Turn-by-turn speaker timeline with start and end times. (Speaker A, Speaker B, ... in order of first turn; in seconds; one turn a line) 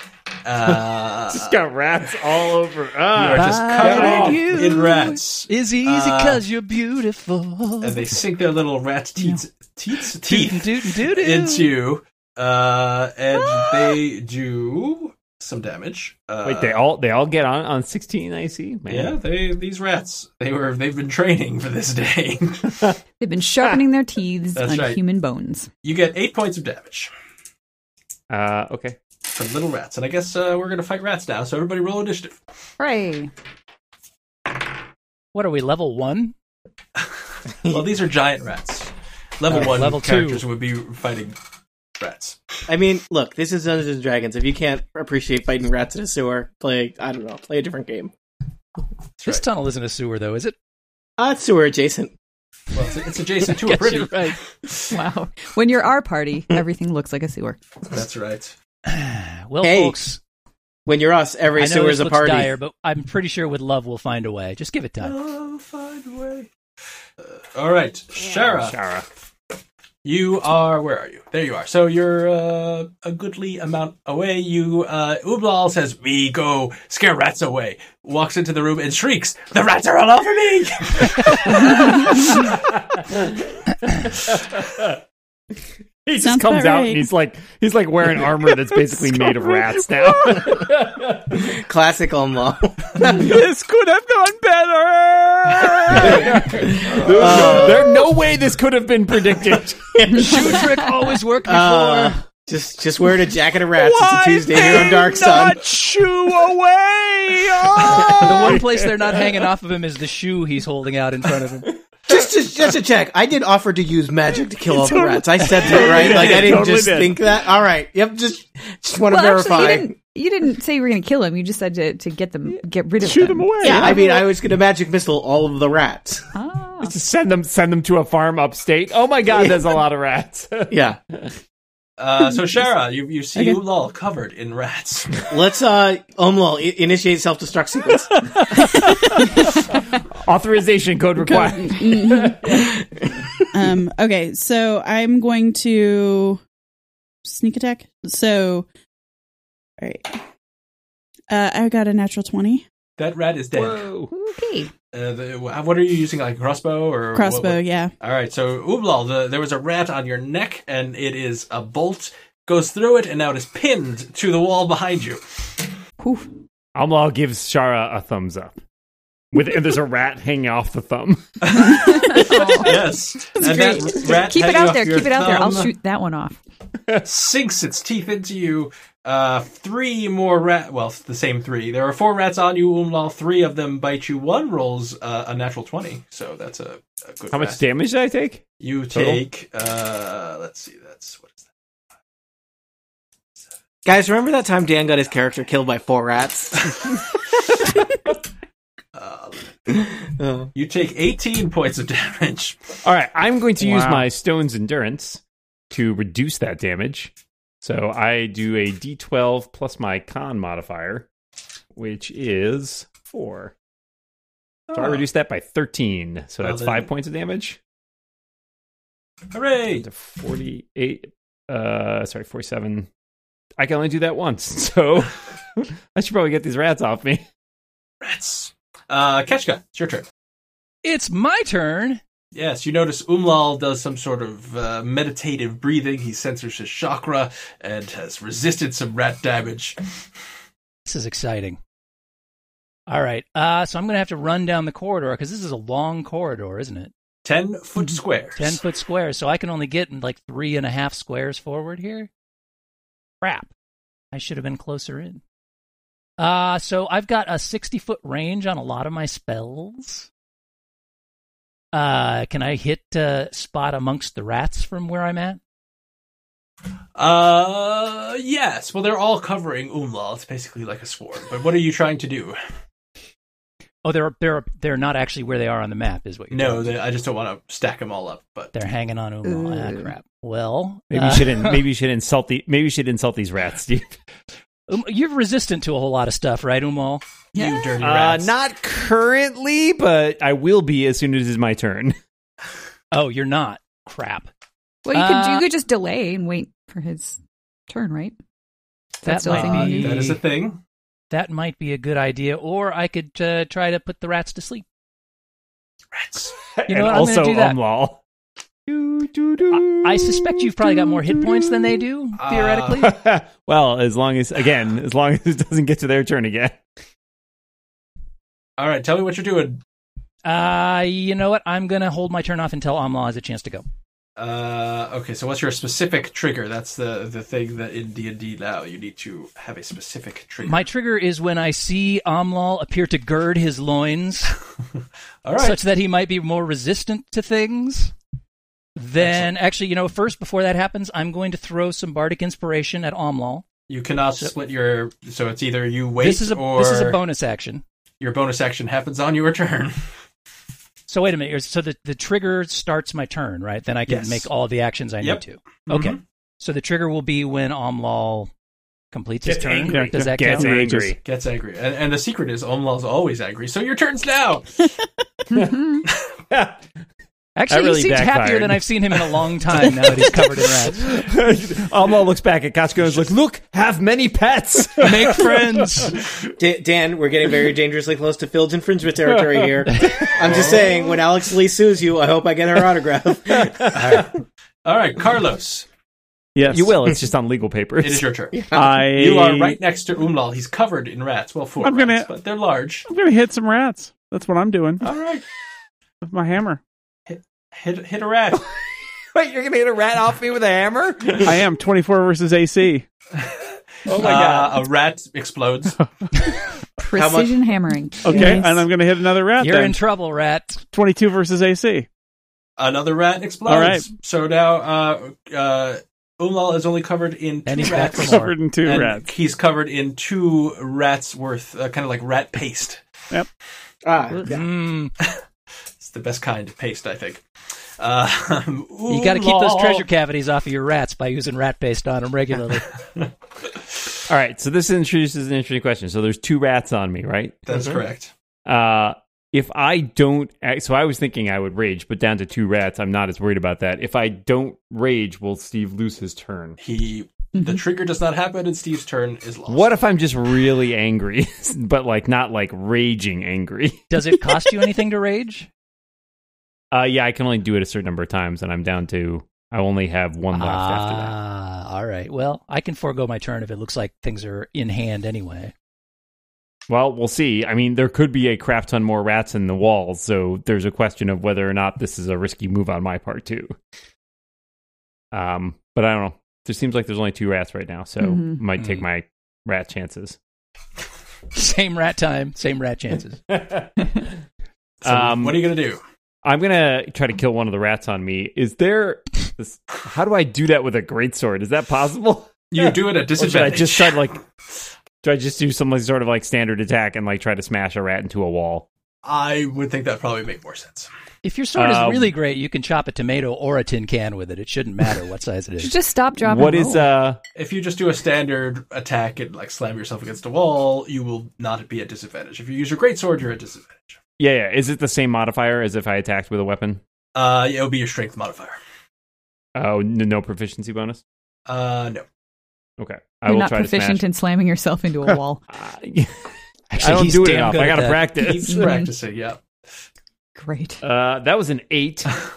Speaker A: 0.5-2.2
Speaker B: 0.7-4.7
Speaker A: 3.1-6.4
Speaker C: 3.3-8.2
Speaker A: 7.8-16.8
Speaker C: 10.2-11.7
Speaker B: 16.4-19.2
Speaker A: 18.9-22.9
Speaker D: 23.2-25.7
Speaker A: 24.6-25.0
Speaker A: 25.8-27.1
Speaker B: 28.3-29.0
Speaker A: 29.3-32.3
Speaker D: 32.8-33.3
Speaker C: 35.3-36.4
Speaker A: 37.7-41.4
Speaker C: 39.5-40.4
Speaker A: 42.0-42.4
Speaker E: 42.7-48.1
Speaker A: 49.2-49.4
Speaker C: 49.2-50.5
Speaker E: 51.2-52.1
Speaker A: 52.7-54.3
Speaker C: 53.5-54.4
Speaker D: 54.9-57.6
Speaker A: 57.9-58.5
Speaker C: 58.9-60.2
Speaker E: 59.6-60.0
Speaker E: 60.9-62.5
Speaker C: 61.6-65.2
Speaker A: 65.0-66.5
Speaker A: 67.5-68.8
Speaker B: 68.2-69.1
Speaker A: 70.0-82.5
Speaker B: 81.3-85.0
Speaker B: 86.1-91.5
Speaker F: 86.2-87.1
Speaker G: 89.2-90.5
Speaker E: 91.3-93.3
Speaker G: 93.0-96.5
Speaker B: 95.9-99.9
Speaker E: 96.6-97.9
Speaker G: 97.0-97.9
Speaker E: 99.9-100.7
Speaker D: 100.1-100.5
Speaker C: 100.2-102.2
Speaker E: 101.5-105.7
Speaker G: 103.7-108.6
Speaker B: 107.7-109.2
Speaker C: 108.1-111.8
Speaker E: 112.1-120.0
Speaker G: 114.8-117.2
Speaker B: 115.7-116.5
Speaker A: 116.0-116.5
Speaker D: 119.1-123.6
Speaker G: 123.0-124.0
Speaker E: 123.6-126.3
Speaker F: 123.6-124.1
Speaker D: 126.3-127.0
Speaker B: 126.8-131.3
Speaker E: 129.3-129.6
Speaker E: 130.7-131.0
Speaker A: 132.0-135.3
Speaker E: 135.3-138.2
Speaker B: 139.0-139.6
Speaker B: 140.2-142.6
Speaker F: 141.2-142.7
Speaker F: 143.5-146.4
Speaker F: 147.2-148.7
Speaker F: 149.8-150.2
Speaker F: 151.3-152.6
Speaker A: 153.0-153.9
Speaker B: 153.5-154.1
Speaker D: 154.1-154.7
Speaker A: 154.9-165.2
Speaker F: 157.1-157.9
Speaker D: 166.0-166.3
Speaker B: 166.8-168.5
Speaker B: 169.3-172.2
Speaker A: 171.4-171.9
Speaker D: 171.6-172.8
Speaker A: 172.5-175.7
Speaker D: 173.3-176.4
Speaker A: 177.0-187.6
Speaker B: 187.3-189.2
Speaker A: 188.6-191.4
Speaker E: 193.8-197.0
Speaker A: 198.9-199.5
Speaker E: 199.7-200.5
Speaker A: 200.5-202.8
Speaker B: 202.8-211.1
Speaker G: 203.6-204.0
Speaker B: 211.8-213.5
Speaker A: 214.7-215.0
Speaker B: 214.7-217.6
Speaker A: 216.4-216.9
Speaker A: 219.3-219.9
Speaker B: 219.8-222.9
Speaker B: 223.6-227.2
Speaker A: 228.0-230.1
Speaker C: 230.8-232.0
Speaker A: 232.3-239.8
Speaker C: 240.9-241.6
Speaker C: 242.9-246.9
Speaker A: 247.2-248.6
Speaker C: 248.4-252.1
Speaker C: 253.2-253.5
Speaker C: 254.1-255.2
Speaker C: 256.2-260.1
Speaker C: 261.7-265.4
Speaker A: 267.0-272.4
Speaker C: 273.8-276.7
Speaker A: 276.3-278.5
Speaker C: 278.5-281.6
Speaker D: 279.2-279.9
Speaker B: 280.9-284.0
Speaker C: 284.7-287.0
Speaker A: 287.3-288.3
Speaker D: 287.4-287.7
Speaker B: 287.8-292.0
Speaker C: 292.9-294.3
Speaker D: 294.9-298.2
Speaker C: 294.9-295.5
Speaker D: 299.0-300.0
Speaker C: 299.1-300.2
Speaker A: 299.3-300.6
Speaker C: 301.1-304.7
Speaker A: 305.9-306.3
Speaker B: 306.6-308.0
Speaker C: 306.7-307.6
Speaker B: 308.7-311.8
Speaker C: 309.5-313.0
Speaker A: 312.2-312.8
Speaker B: 312.8-316.6
Speaker A: 318.6-319.6
Speaker C: 320.2-323.6
Speaker A: 324.2-330.7
Speaker C: 330.4-334.4
Speaker A: 335.2-335.6
Speaker C: 335.4-337.9
Speaker C: 338.8-343.5
Speaker A: 339.0-339.3
Speaker A: 343.7-347.0
Speaker C: 346.0-347.6
Speaker A: 348.0-349.8
Speaker C: 350.9-358.3
Speaker A: 353.9-354.3
Speaker A: 355.0-356.0
Speaker C: 358.9-361.0
Speaker B: 359.2-361.0
Speaker G: 359.7-360.5
Speaker A: 361.0-364.7
Speaker D: 365.3-365.8
Speaker B: 365.3-365.6
Speaker B: 366.3-366.6
Speaker C: 367.4-370.9
Speaker B: 367.5-368.6
Speaker B: 370.8-375.3
Speaker C: 374.8-376.0
Speaker E: 376.4-384.0
Speaker A: 380.2-380.8
Speaker B: 383.3-384.0
Speaker A: 383.8-384.1
Speaker C: 383.8-384.1
Speaker A: 384.7-385.7
Speaker G: 386.4-386.8
Speaker B: 386.5-388.1
Speaker A: 387.8-392.9
Speaker E: 388.3-388.9
Speaker G: 388.5-389.6
Speaker G: 391.6-392.1
Speaker G: 392.9-394.8
Speaker A: 394.8-395.2
Speaker G: 396.0-396.6
Speaker A: 397.1-398.4
Speaker B: 399.1-401.4
Speaker G: 401.2-402.9
Speaker A: 403.2-405.8
Speaker B: 403.9-404.6
Speaker D: 406.8-408.7
Speaker E: 406.9-407.4
Speaker G: 408.0-409.8
Speaker E: 408.0-408.4
Speaker C: 409.4-410.6
Speaker G: 410.7-411.9
Speaker A: 412.6-422.8
Speaker G: 413.5-413.9
Speaker C: 417.5-418.4
Speaker G: 418.0-419.1
Speaker E: 423.8-424.5
Speaker C: 424.2-424.9
Speaker A: 425.8-427.2
Speaker A: 427.8-429.9
Speaker C: 428.9-432.7
Speaker B: 434.1-437.5
Speaker A: 437.5-438.1
Speaker B: 438.5-446.6
Speaker A: 446.6-449.7
Speaker D: 447.4-447.6
Speaker B: 449.5-453.8
Speaker C: 453.9-455.5
Speaker B: 456.7-461.1
Speaker C: 460.3-465.5
Speaker B: 466.7-473.6
Speaker B: 475.1-480.2
Speaker D: 478.0-478.4
Speaker C: 478.6-478.8
Speaker C: 481.4-483.2
Speaker B: 483.3-483.7
Speaker A: 484.8-485.8
Speaker B: 484.8-485.5
Speaker B: 486.2-494.2
Speaker A: 492.5-494.2
Speaker B: 495.0-498.7
Speaker A: 499.0-500.9
Speaker C: 501.2-505.8
Speaker B: 501.6-502.1
Speaker D: 505.6-506.9
Speaker B: 506.2-507.2
Speaker A: 507.4-514.0
Speaker B: 514.2-516.8
Speaker A: 517.1-518.6
Speaker B: 519.6-521.0
Speaker A: 521.5-522.0
Speaker B: 522.8-524.0
Speaker D: 523.2-525.4
Speaker B: 525.5-528.7
Speaker C: 526.7-528.1
Speaker A: 528.2-529.4
Speaker D: 528.5-528.9
Speaker D: 530.4-530.8
Speaker B: 530.8-532.2